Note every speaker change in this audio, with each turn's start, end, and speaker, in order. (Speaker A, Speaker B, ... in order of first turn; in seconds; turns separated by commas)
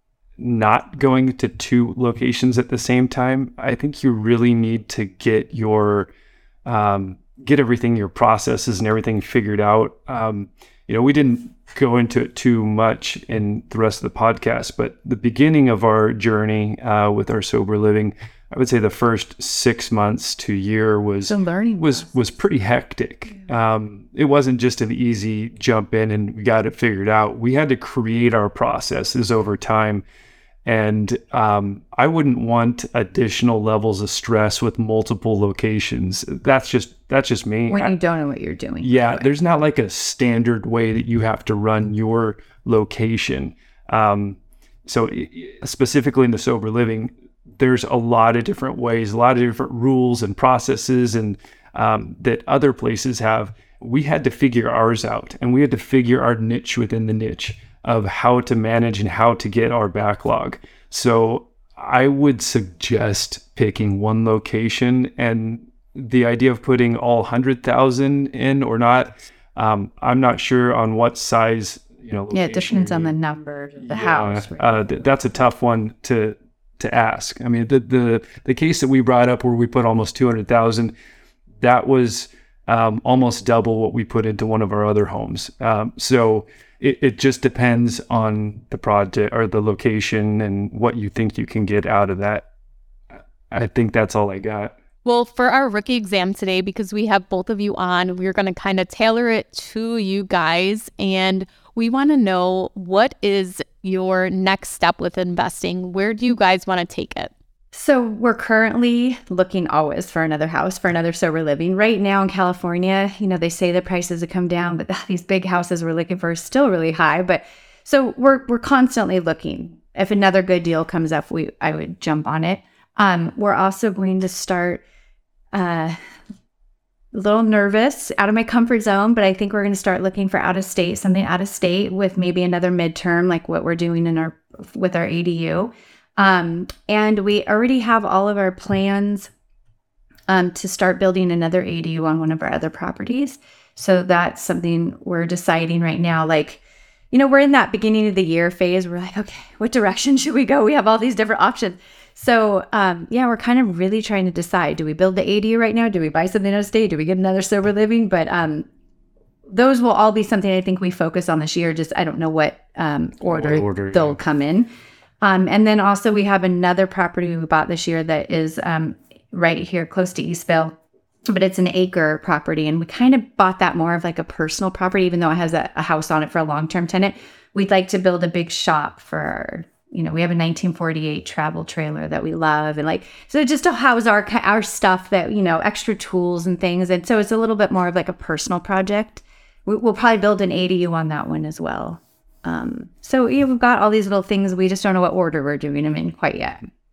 Speaker A: 0.4-6.1, Speaker A: 6.7-30.0, Speaker B: 21.2-22.1, Speaker A: 30.6-37.9, Speaker B: 37.7-39.3, Speaker A: 38.8-73.1, Speaker B: 72.3-75.0, Speaker A: 73.9-80.9, Speaker A: 81.6-92.5, Speaker A: 93.5-94.7, Speaker C: 95.0-107.3, Speaker B: 107.7-124.8, Speaker B: 125.5-126.0, Speaker B: 127.1-139.3, Speaker B: 140.3-158.7, Speaker B: 159.5-164.7, Speaker A: 163.2-164.2, Speaker B: 165.2-170.8, Speaker B: 171.3-196.6